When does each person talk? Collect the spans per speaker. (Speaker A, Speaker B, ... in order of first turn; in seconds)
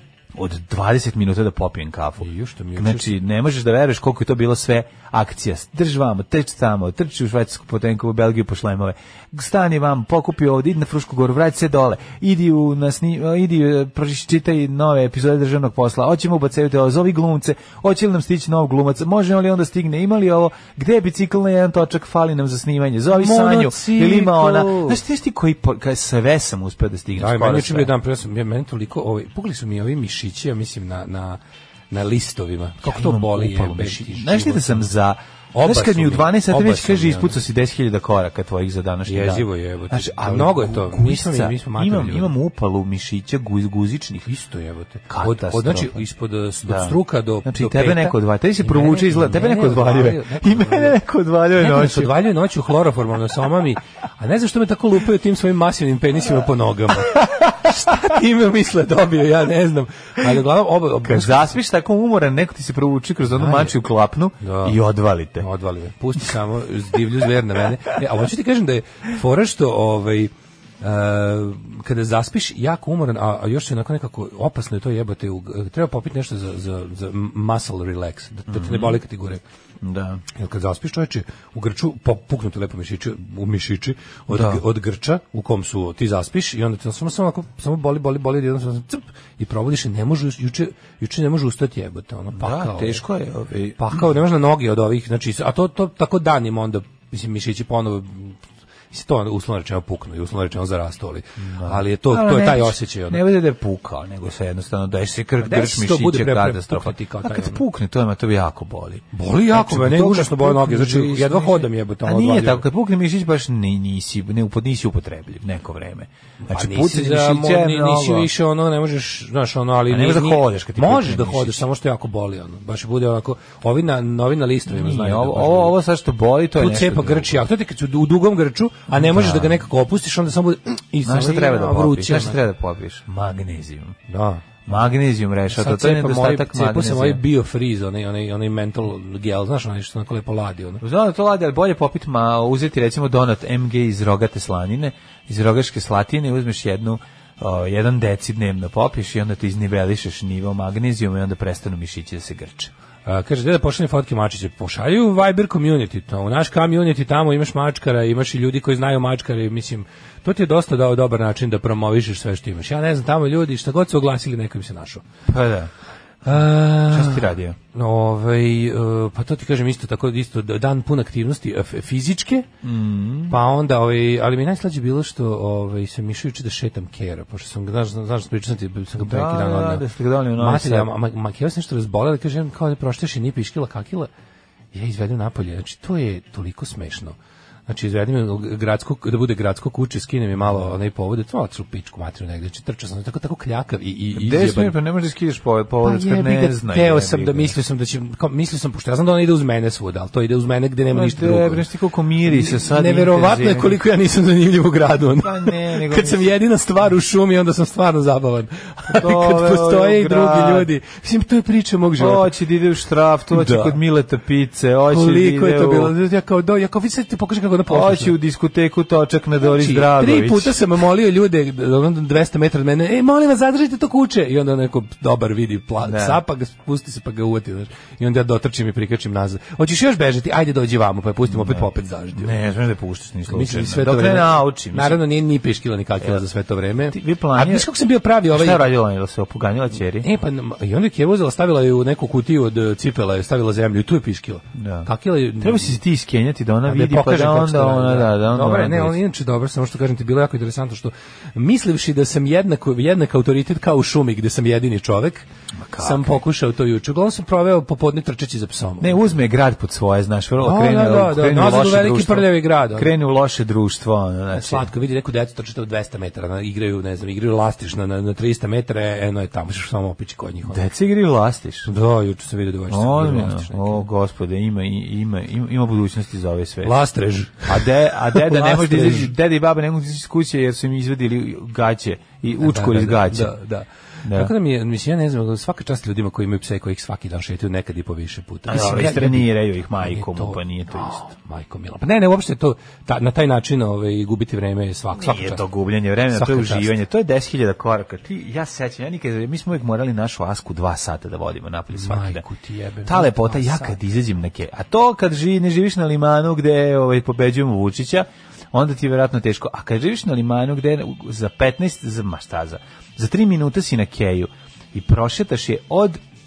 Speaker A: 0.3-27.9, 32.8-44.3, 45.1-46.0, 46.6-52.2, 61.0-65.5, 78.5-79.0, 79.8-80.2, 84.3-84.6, 92.3-94.0, 101.4-118.3, 119.9-121.7, 124.7-127.4, 128.9-129.6, 131.0-134.0, 134.7-137.2, 140.8-152.7, 165.3-165.7, 166.3-167.6, 172.6-173.4, 179.0-180.9, 194.1-197.5, 200.9-203.8, 205.2-206.3, 208.9-210.7, 212.0-215.9, 217.7-220.6, 225.8-226.2, 231.3-235.0, 236.9-237.7, 238.3-240.1, 244.6-249.0, 255.6-256.1, 258.8-264.7, 270.5-271.7, 272.7-276.8, 277.4-283.4, 284.0-284.3, 288.5-291.0, 294.9-302.2, 302.9-316.0
Speaker B: 2.2-3.2, 23.1-25.0, 27.2-31.4, 31.9-34.9, 35.5-37.4, 39.1-42.3, 44.2-51.0, 51.6-61.5, 63.3-63.8, 64.4-64.8, 65.4-79.4, 80.3-93.0, 93.8-98.4, 98.9-103.2, 105.4-107.6, 109.1-112.7, 116.5-125.8, 126.6-132.4, 134.1-134.4, 135.5-140.8, 153.1-165.0, 166.2-172.5, 173.3-179.8, 180.4-184.1, 184.7-194.8, 195.8-201.6, 202.3-212.3, 213.3-213.8, 214.9-218.2, 219.4-232.4, 233.3-238.6, 240.0-245.8, 246.7-255.3, 255.8-259.0, 260.4-262.9, 264.3-270.6, 271.7-273.9, 276.6-279.1, 282.4-295.4, 296.1-296.7, 301.7-303.8